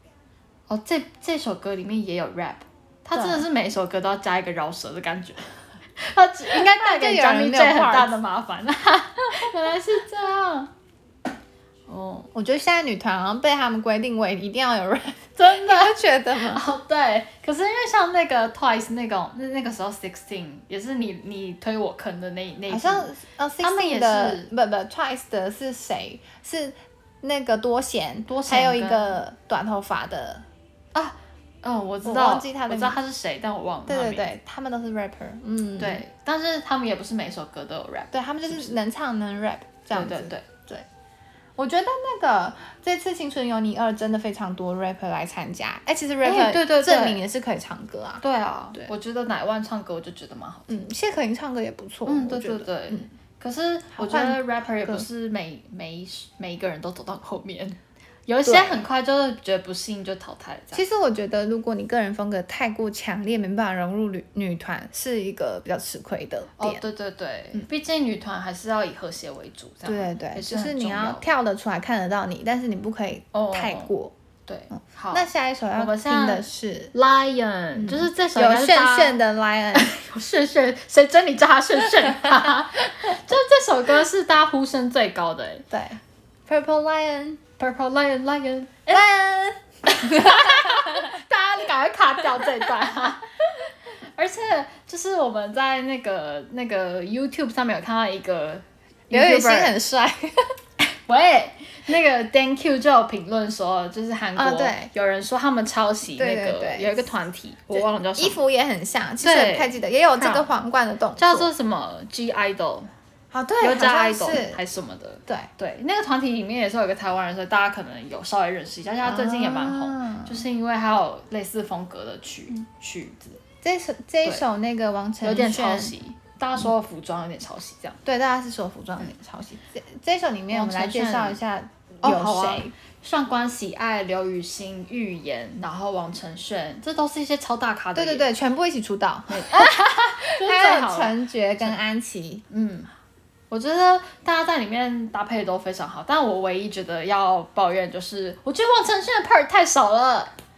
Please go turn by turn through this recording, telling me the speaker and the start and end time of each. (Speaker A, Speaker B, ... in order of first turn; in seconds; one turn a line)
Speaker A: 0.7-10.7
Speaker B: 3.1-3.5
Speaker B: 6.6-8.1
Speaker A: 11.9-12.3
Speaker B: 12.3-16.6
Speaker A: 15.4-24.5
Speaker B: 22.7-30.4
Speaker A: 28.3-29.2
Speaker A: 30.9-34.3
Speaker B: 32.0-33.0
Speaker B: 33.9-36.0
Speaker A: 35.8-38.8
Speaker B: 38.1-40.9
Speaker A: 39.9-40.5
Speaker B: 41.6-48.2
Speaker A: 46.2-47.2
Speaker A: 48.2-50.8
Speaker B: 50.7-53.0
Speaker A: 52.1-60.8
Speaker B: 53.9-55.0
Speaker B: 58.4-58.8
Speaker B: 60.7-66.8
Speaker A: 66.6-71.2
Speaker B: 69.8-74.1
Speaker A: 73.3-73.9
Speaker A: 74.5-79.2
Speaker B: 75.1-76.9
Speaker B: 77.8-80.0
Speaker A: 79.7-85.7
Speaker B: 85.7-87.4
Speaker A: 87.6-89.2
Speaker B: 88.9-91.2
Speaker A: 89.9-99.8
Speaker B: 99.1-100.5
Speaker A: 101.0-108.4
Speaker B: 104.4-104.9
Speaker B: 106.2-107.1
Speaker B: 107.7-111.5
Speaker A: 109.2-110.5
Speaker A: 111.2-112.9
Speaker B: 113.3-114.6
Speaker A: 113.6-123.4
Speaker B: 119.0-120.4
Speaker B: 123.6-125.9
Speaker A: 125.2-128.0
Speaker B: 128.1-132.7
Speaker A: 130.5-131.4
Speaker A: 132.0-138.3
Speaker B: 137.9-142.4
Speaker A: 139.3-141.8
Speaker A: 142.5-142.9
Speaker A: 143.5-150.3